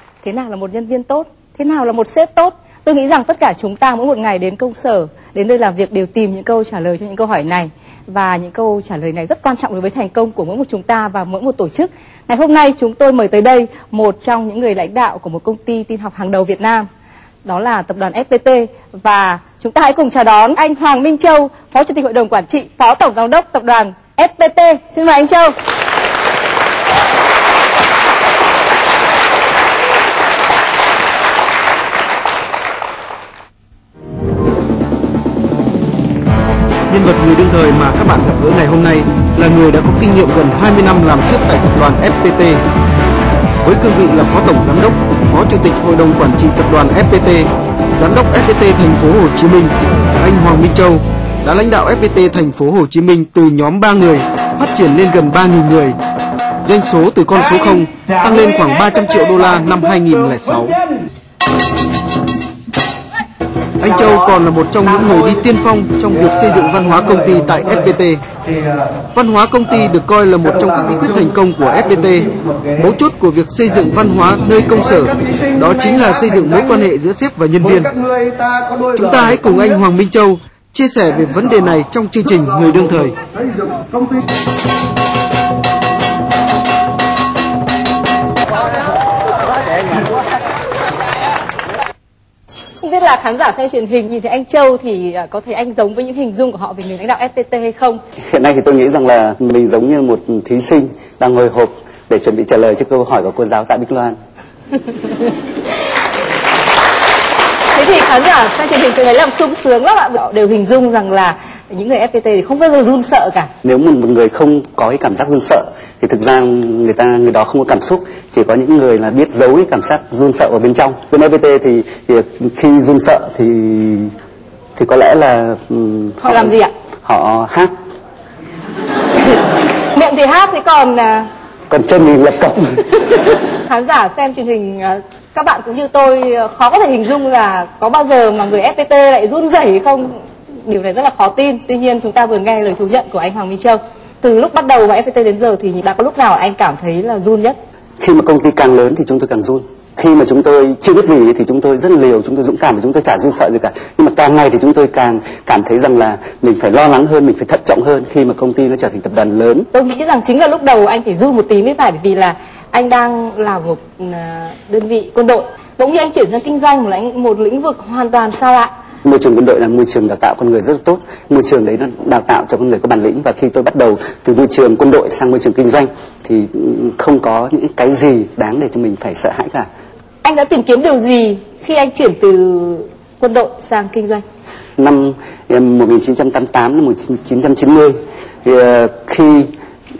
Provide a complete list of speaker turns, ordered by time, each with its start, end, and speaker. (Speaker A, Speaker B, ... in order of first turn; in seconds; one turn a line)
Speaker A: 0.2-16.9
Speaker A: 17.4-25.5
Speaker B: 36.9-42.6
Speaker B: 43.6-56.0
Speaker B: 56.6-60.8
Speaker B: 63.8-68.2
Speaker B: 69.1-78.0
Speaker B: 78.9-83.2
Speaker A: 92.8-98.0
Speaker C: 98.3-104.2
Speaker A: 107.7-113.5
Speaker C: 113.6-124.1
Speaker C: 124.8-126.5
Speaker A: 126.2-126.7
Speaker C: 127.0-127.7
Speaker A: 129.9-131.3
Speaker C: 131.7-132.8
Speaker A: 133.7-147.6
Speaker C: 148.0-159.7
Speaker A: 159.7-168.7
Speaker C: 169.0-179.7
Speaker A: 180.2-184.2
Speaker C: 184.8-189.5